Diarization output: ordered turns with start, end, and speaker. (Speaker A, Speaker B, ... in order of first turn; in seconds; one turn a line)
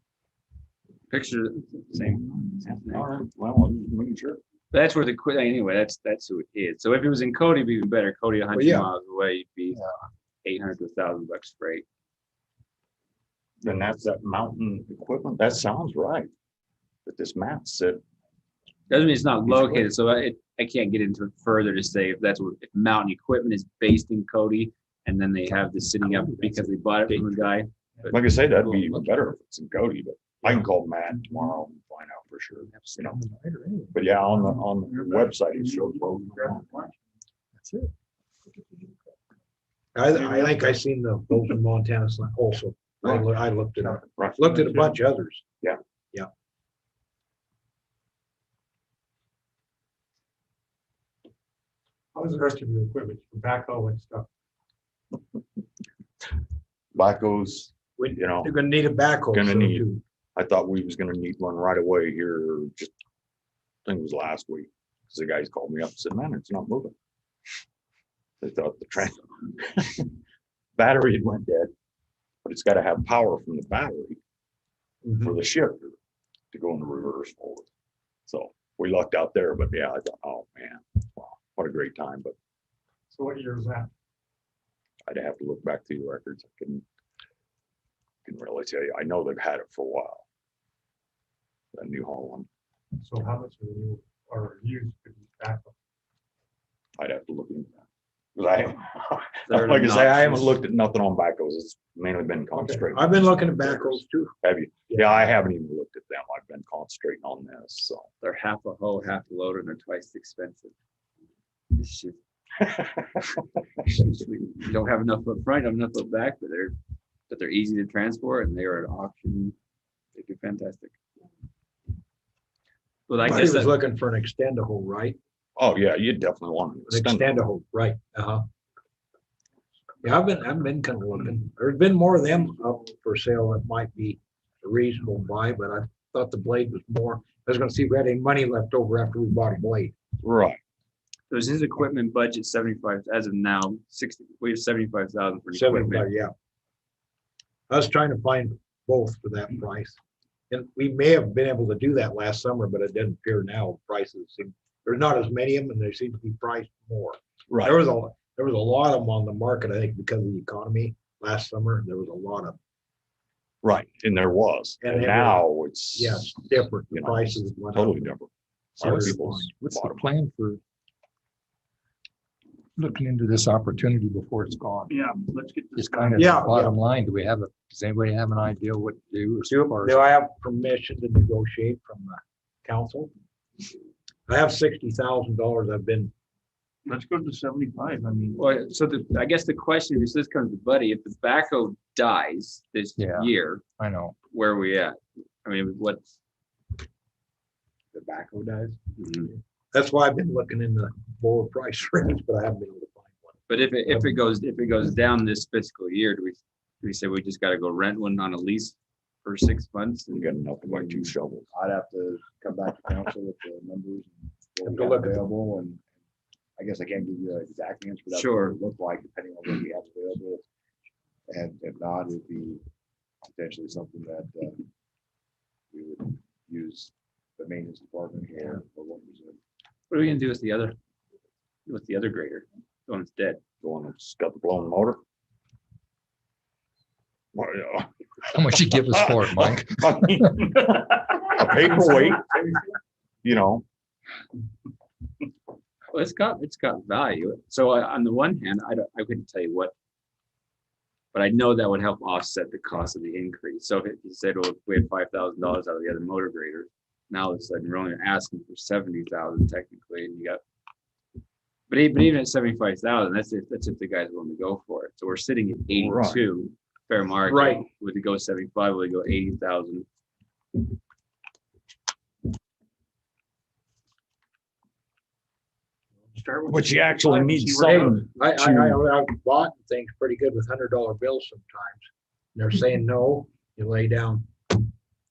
Speaker A: 1.1-3.0
Speaker B: 2.6-4.4
Speaker A: 4.7-9.8
Speaker C: 8.5-8.9
Speaker A: 10.4-11.8
Speaker B: 13.6-16.3
Speaker B: 17.1-18.0
Speaker A: 18.9-29.0
Speaker B: 28.1-33.2
Speaker D: 32.9-34.0
Speaker B: 33.9-36.7
Speaker E: 34.9-36.9
Speaker D: 37.6-37.9
Speaker C: 39.9-45.4
Speaker B: 44.0-44.5
Speaker E: 52.1-54.3
Speaker B: 56.9-58.5
Speaker C: 58.0-60.0
Speaker B: 59.3-59.8
Speaker B: 60.4-62.9
Speaker B: 63.8-66.9
Speaker B: 68.4-70.1
Speaker B: 70.8-71.7
Speaker B: 72.4-74.2
Speaker B: 75.1-75.9
Speaker B: 76.5-77.7
Speaker B: 78.3-82.3
Speaker E: 83.1-83.9
Speaker B: 85.1-86.8
Speaker B: 88.2-90.2
Speaker B: 91.7-92.5
Speaker E: 93.0-95.7
Speaker B: 97.0-97.7
Speaker B: 98.3-108.1
Speaker A: 99.5-100.6
Speaker C: 102.7-104.3
Speaker C: 104.9-105.2
Speaker A: 108.2-110.7
Speaker A: 111.7-112.2
Speaker A: 113.8-116.7
Speaker A: 117.3-119.5
Speaker A: 120.1-121.0
Speaker A: 123.1-123.7
Speaker C: 123.2-125.2
Speaker B: 125.6-127.3
Speaker C: 126.9-128.4
Speaker C: 130.0-139.9
Speaker B: 140.2-140.6
Speaker A: 141.3-146.1
Speaker C: 145.5-146.3
Speaker C: 147.7-150.0
Speaker C: 150.5-162.6
Speaker B: 157.5-157.7
Speaker B: 163.6-170.1
Speaker C: 164.8-168.1
Speaker C: 168.8-169.5
Speaker D: 169.6-170.6
Speaker D: 172.8-174.9
Speaker E: 174.9-176.5
Speaker D: 175.7-180.0
Speaker C: 176.1-176.8
Speaker C: 179.5-183.1
Speaker C: 184.3-186.1
Speaker E: 186.8-188.4
Speaker A: 188.3-193.6
Speaker D: 193.0-193.3
Speaker D: 193.8-194.1
Speaker A: 194.3-196.0
Speaker F: 197.9-198.7
Speaker A: 199.0-199.3
Speaker C: 199.7-204.1
Speaker A: 203.5-210.3
Speaker B: 210.1-211.5
Speaker F: 210.6-215.8
Speaker C: 214.6-215.2
Speaker F: 216.6-220.4
Speaker A: 218.1-218.6
Speaker F: 221.3-222.6
Speaker F: 223.2-224.7
Speaker F: 225.7-229.4
Speaker A: 229.9-230.8
Speaker A: 231.7-233.4
Speaker B: 233.6-235.0
Speaker B: 237.3-237.9
Speaker D: 238.2-240.4
Speaker B: 238.7-242.6
Speaker B: 243.2-243.6
Speaker A: 245.9-249.7
Speaker A: 251.1-260.4
Speaker A: 261.7-269.9
Speaker B: 265.7-266.2
Speaker C: 267.2-267.6
Speaker E: 276.1-278.0
Speaker B: 276.5-278.8
Speaker C: 277.7-284.7